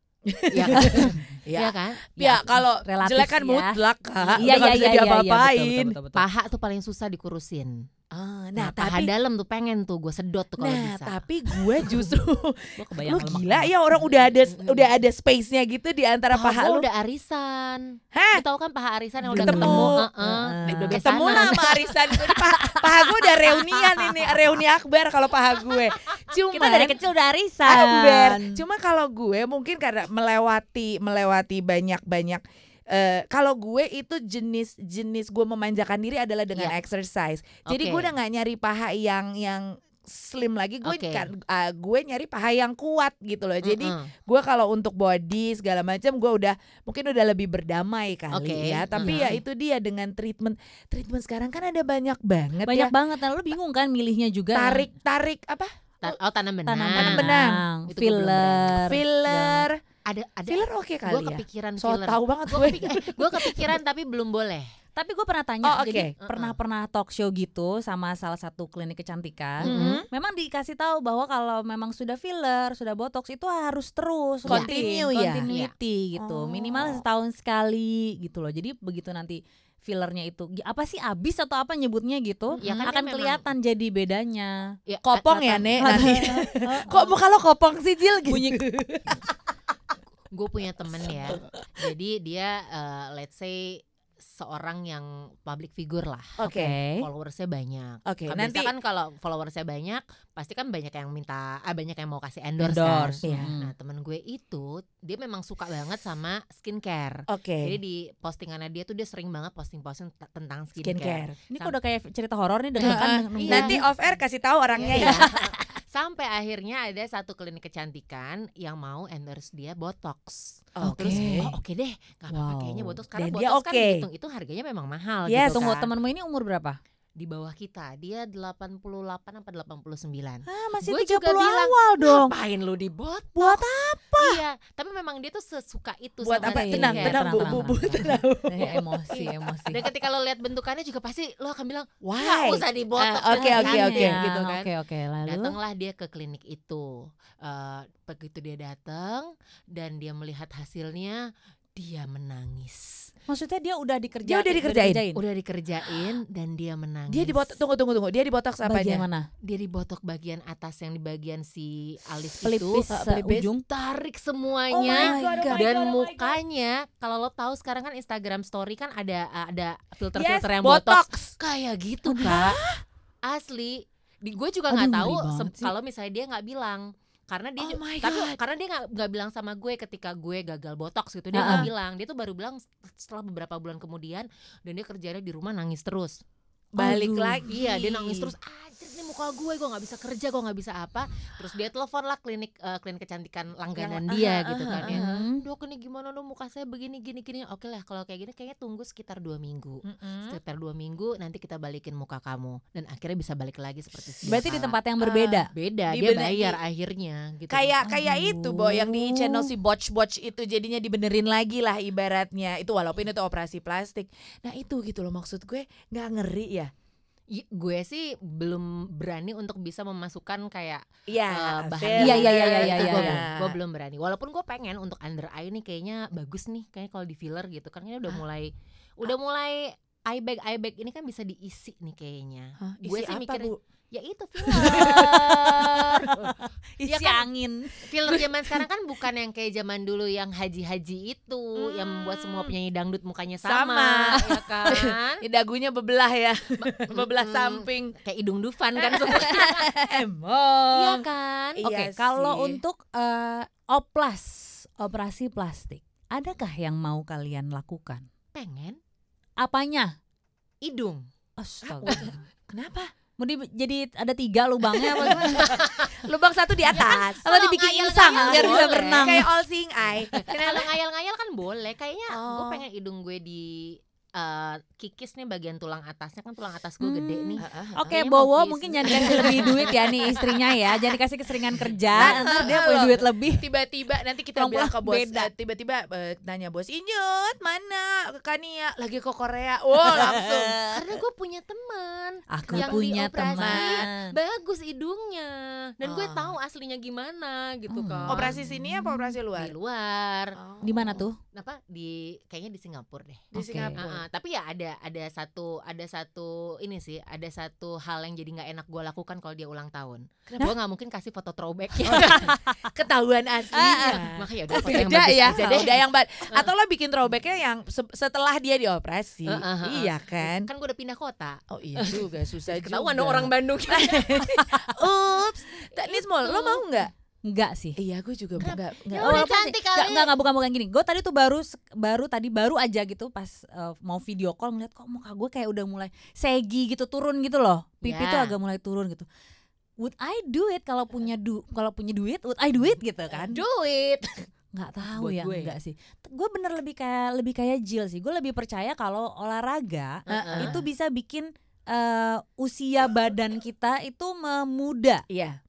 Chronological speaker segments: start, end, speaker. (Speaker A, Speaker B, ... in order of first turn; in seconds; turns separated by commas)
Speaker A: 0.3-6.0, Speaker B: 0.5-2.4, Speaker C: 2.9-3.8, Speaker B: 4.2-4.6, Speaker C: 4.4-6.2, Speaker B: 6.2-7.8, Speaker A: 8.1-9.1, Speaker B: 8.6-12.0, Speaker A: 10.6-16.9, Speaker C: 12.8-13.7, Speaker B: 14.1-14.9, Speaker B: 16.3-21.6, Speaker A: 18.1-18.4, Speaker C: 19.3-23.7, Speaker A: 19.3-20.0, Speaker A: 20.7-27.0, Speaker C: 26.5-28.6, Speaker A: 27.6-52.9, Speaker B: 37.7-38.1, Speaker B: 40.8-41.3, Speaker B: 43.6-44.1, Speaker B: 48.3-49.4, Speaker C: 52.6-54.9, Speaker A: 54.5-56.2, Speaker B: 56.0-57.2, Speaker C: 56.7-59.7, Speaker A: 57.0-57.6, Speaker B: 57.9-59.0, Speaker A: 58.8-59.8, Speaker B: 60.1-64.7, Speaker A: 60.5-63.7, Speaker C: 65.0-84.8, Speaker A: 65.6-66.1, Speaker B: 66.2-66.6, Speaker B: 69.6-70.0, Speaker A: 69.6-70.1, Speaker A: 74.5-75.5, Speaker A: 76.2-77.0, Speaker A: 82.5-82.8, Speaker B: 82.6-83.5, Speaker B: 84.9-85.8, Speaker A: 85.0-89.2, Speaker C: 85.8-87.1, Speaker C: 88.3-88.7, Speaker B: 90.3-96.4, Speaker A: 91.1-91.9, Speaker A: 96.4-96.8, Speaker C: 96.5-97.0, Speaker B: 97.0-111.8, Speaker A: 98.1-98.7, Speaker C: 102.6-103.7, Speaker A: 103.2-103.5, Speaker A: 107.3-107.8, Speaker A: 110.8-111.4, Speaker C: 111.5-113.8, Speaker B: 112.8-113.8, Speaker A: 112.8-115.6, Speaker B: 114.7-125.9, Speaker A: 120.8-121.5, Speaker C: 120.8-121.5, Speaker C: 122.3-123.0, Speaker A: 123.2-124.0, Speaker A: 125.3-125.7, Speaker C: 125.4-126.8, Speaker B: 127.2-133.6, Speaker C: 130.5-132.3, Speaker C: 133.4-134.0, Speaker A: 133.4-134.4, Speaker B: 134.2-138.0, Speaker A: 136.2-139.8, Speaker C: 136.4-139.8, Speaker B: 139.1-144.7, Speaker A: 142.0-144.4, Speaker C: 143.3-145.6, Speaker B: 145.2-153.1, Speaker C: 153.3-155.2, Speaker A: 154.2-155.0, Speaker B: 155.2-157.6, Speaker A: 157.1-159.1, Speaker C: 158.7-159.3, Speaker B: 159.4-162.8, Speaker C: 162.4-163.7, Speaker A: 162.9-163.5, Speaker B: 163.7-172.6, Speaker A: 164.7-166.4, Speaker C: 164.9-165.7, Speaker A: 170.2-171.3, Speaker C: 172.1-172.6, Speaker A: 172.2-172.8, Speaker B: 173.2-186.2, Speaker C: 174.7-175.7, Speaker A: 177.6-178.4, Speaker C: 181.3-181.7, Speaker A: 181.3-181.7, Speaker A: 186.8-188.3, Speaker C: 186.8-187.5, Speaker B: 187.5-204.8, Speaker A: 193.8-195.2, Speaker C: 194.8-195.4, Speaker A: 199.8-200.4, Speaker A: 204.1-206.6, Speaker C: 204.2-205.5, Speaker B: 205.5-207.8, Speaker A: 207.5-216.7, Speaker C: 207.8-209.5, Speaker B: 217.3-236.2, Speaker A: 221.1-223.6, Speaker C: 222.0-223.2, Speaker A: 232.6-233.6, Speaker A: 234.4-237.2, Speaker C: 236.8-237.7, Speaker B: 237.8-245.2, Speaker A: 238.0-238.7, Speaker A: 241.6-242.5, Speaker A: 243.4-247.9, Speaker B: 246.6-249.8, Speaker A: 248.8-251.1, Speaker B: 250.7-251.6, Speaker A: 251.6-252.6, Speaker C: 251.6-258.1, Speaker B: 258.3-258.8, Speaker C: 259.4-259.9, Speaker B: 260.6-261.1, Speaker C: 261.4-262.2, Speaker A: 261.6-262.9, Speaker C: 263.2-265.6, Speaker A: 264.8-267.4, Speaker B: 265.2-266.0, Speaker B: 266.7-269.1, Speaker C: 266.7-269.3, Speaker A: 267.9-270.7, Speaker B: 270.1-280.9, Speaker A: 272.1-272.6, Speaker C: 276.8-283.5, Speaker A: 277.4-277.9, Speaker A: 278.8-280.0, Speaker B: 281.5-282.5, Speaker A: 281.9-290.8, Speaker C: 284.4-285.3, Speaker C: 289.9-290.6, Speaker B: 290.7-298.4, Speaker C: 292.3-294.2, Speaker A: 292.5-293.9, Speaker A: 295.8-296.4, Speaker C: 297.7-299.1, Speaker A: 298.1-299.5, Speaker B: 299.4-300.4, Speaker A: 300.4-301.1, Speaker C: 300.6-301.2, Speaker B: 301.3-312.3, Speaker A: 303.3-304.0, Speaker C: 303.3-303.8, Speaker A: 311.8-320.5, Speaker C: 311.9-312.6, Speaker B: 313.5-315.8, Speaker C: 313.6-314.0, Speaker B: 319.3-324.6, Speaker A: 321.5-326.9, Speaker B: 325.7-326.7, Speaker C: 327.2-327.8, Speaker A: 327.8-329.3, Speaker B: 328.4-330.1, Speaker C: 329.0-339.1, Speaker B: 337.8-338.3, Speaker C: 339.8-343.4, Speaker B: 343.1-344.3, Speaker C: 344.5-355.0, Speaker B: 344.9-345.6, Speaker B: 350.1-350.6, Speaker A: 350.1-350.6, Speaker A: 355.1-355.4